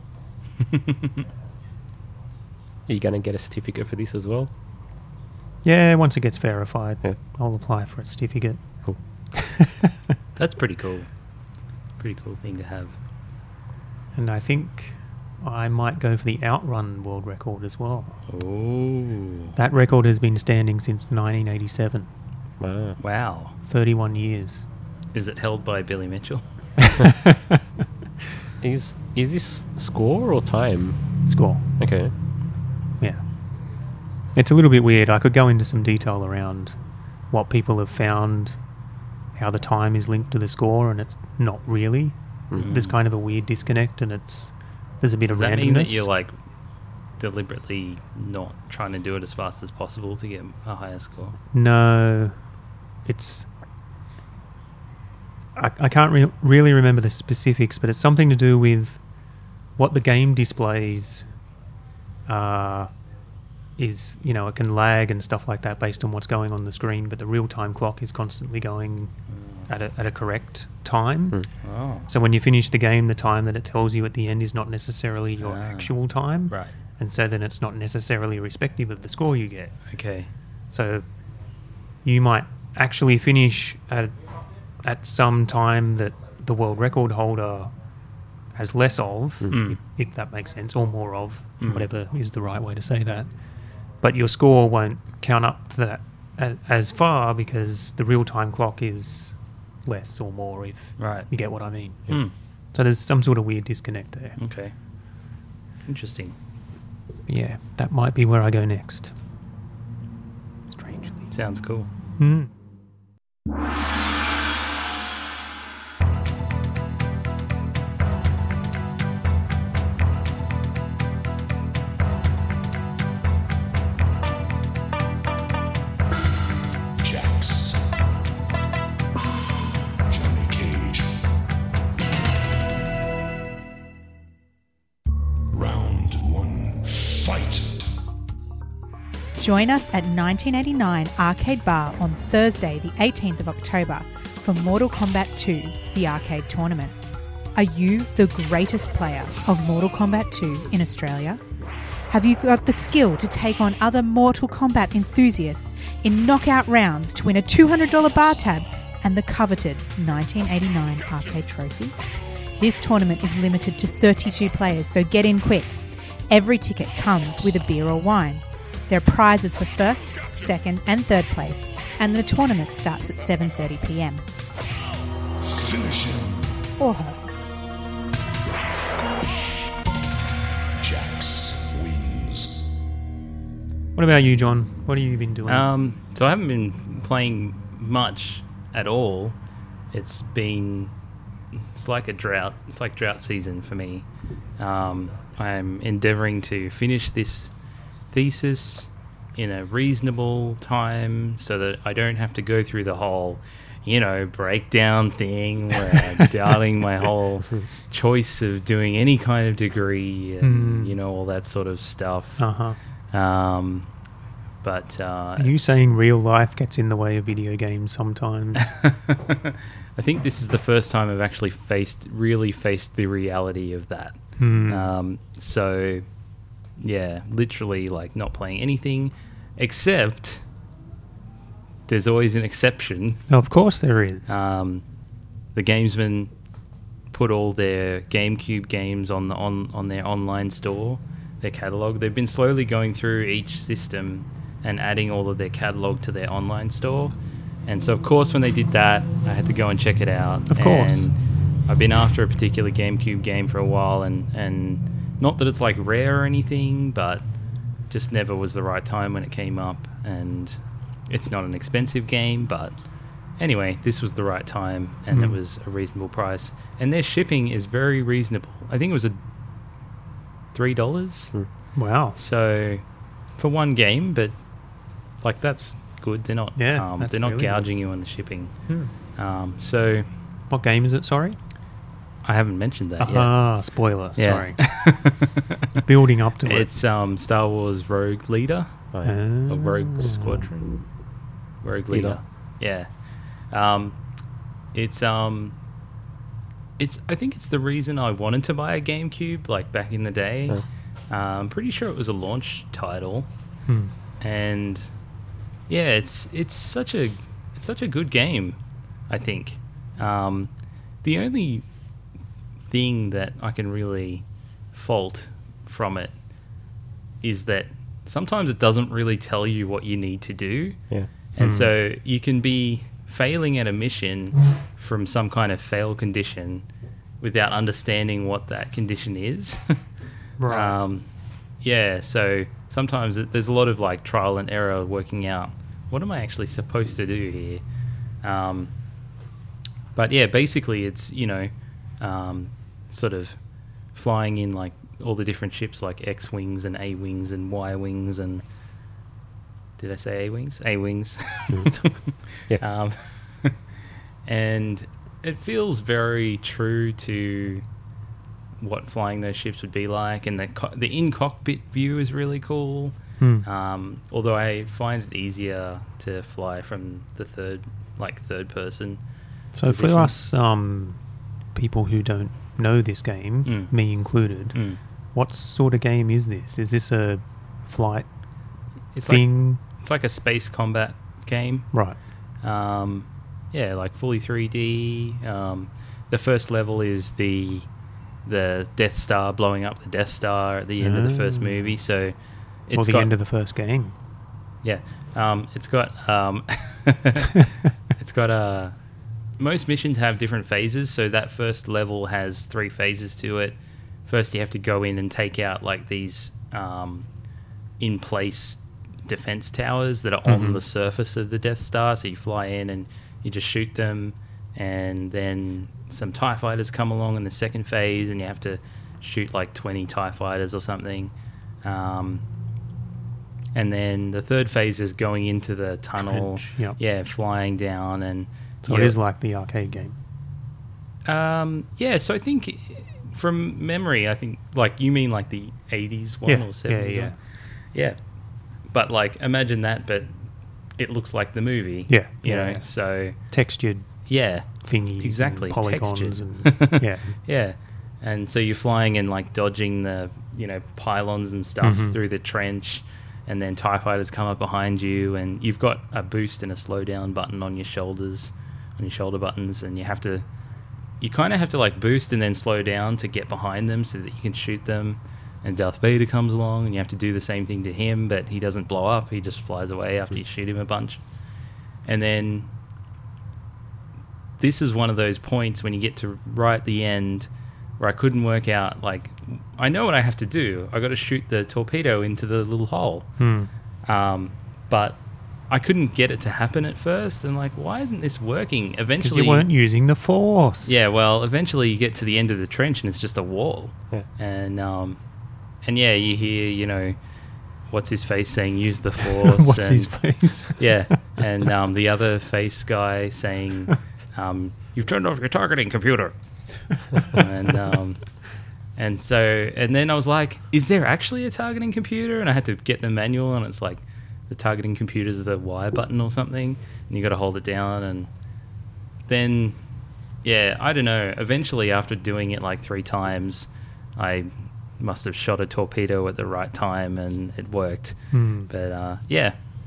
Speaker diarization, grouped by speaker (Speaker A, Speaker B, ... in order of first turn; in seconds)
Speaker A: 0.6-1.2, 10.4-11.1, 12.0-12.9, 18.3-19.5, 23.0-23.5, 25.1-26.9, 42.5-43.0, 45.3-46.3, 47.2-51.4, 69.3-69.7, 71.6-72.1, 75.4-75.9, 79.9-80.3, 89.5-89.8, 91.6-91.9, 101.0-101.3, 104.4-104.7, 105.8-106.3, 111.3-111.9, 185.5-189.3, 189.9-190.9, 191.6-194.1, 194.6-197.5, 198.1-212.4, 213.1-213.8, 214.6-215.5, 218.6-226.0, 226.8-230.4, 231.9-233.3, 234.3-234.8, 235.5-236.3, 237.1-247.1, 247.7-251.1, 251.7-257.2, 257.9-262.8, 263.4-269.2, 270.5-271.3, 272.1-272.8, 273.4-274.3, 275.2-278.5, 279.1-280.1, 282.2-283.3, 284.2-285.8, 286.4-288.8, 289.5-290.8, 291.6-292.9, 293.5-293.9, 294.7-295.5, 296.8-303.3, 304.2-304.9, 305.7-308.6, 309.1-310.5, 311.0-311.6, 312.7-316.1, 317.2-320.8, 321.3-326.6, 327.2-329.8, 330.4-331.1, 331.6-337.6, 338.2-338.7, 339.9-343.4, 343.9-348.4, 349.8-353.6, 354.2-357.6, 358.6-369.0, 369.6-370.1, 373.4-373.7, 374.5-374.8, 378.9-381.7, 382.4-387.7, 388.2-392.1, 392.7-393.1, 394.6-398.8, 399.4-407.1, 407.8-421.1, 421.6-422.2, 423.5-428.9, 431.1-437.1, 438.7-440.1, 440.8-443.1, 444.1-460.2, 461.0-471.0, 471.8-472.5, 474.4-477.3, 477.8-483.1, 483.9-485.0, 485.5-489.5, 490.6-495.0, 495.6-496.9, 497.7-499.9, 500.6-506.1, 507.0-508.0, 508.8-518.1, 519.1-519.6, 520.2-529.3
Speaker B: 2.9-4.5, 22.6-23.0, 28.6-31.0, 31.8-32.1, 288.9-289.2, 291.9-292.2
Speaker C: 5.6-8.6, 9.3-9.9, 14.1-18.1, 19.6-22.1, 23.7-24.6, 26.8-27.6, 31.3-31.6, 34.3-36.8, 37.3-38.5, 39.4-46.1, 51.5-52.4, 53.0-53.5, 55.5-59.0, 59.8-61.3, 62.3-62.9, 63.8-69.1, 69.7-71.4, 72.1-79.8, 80.7-81.0, 82.0-84.2, 84.8-87.7, 88.5-93.3, 94.0-102.1, 102.7-104.4, 107.3-109.1, 110.7-111.3, 112.2-112.5, 183.9-185.7, 210.4-210.9, 212.4-212.8, 215.4-218.7, 224.4-224.9, 233.3-234.3, 250.5-251.1, 265.1-265.4, 271.8-272.1, 276.6-277.6, 280.5-281.4, 283.0-284.6, 285.8-286.7, 289.0-290.5, 303.7-303.9, 321.4-321.7, 330.4-330.8, 363.2-363.4, 369.5-371.0, 371.5-374.6, 375.1-378.1, 379.1-379.6, 381.7-382.0, 390.8-391.7, 392.7-393.9, 426.0-426.8, 428.6-429.9, 436.2-437.1, 441.9-442.7, 443.3-443.9, 444.6-447.1, 451.6-452.0, 483.2-483.5, 489.0-490.8, 499.0-500.9, 528.1-528.5
Speaker D: 127.0-127.9, 130.1-131.3, 135.5-137.8, 175.4-176.6, 180.8-182.7
Speaker E: 139.4-146.9, 147.5-151.4, 152.1-161.9, 162.6-165.8, 166.3-174.2, 176.8-177.2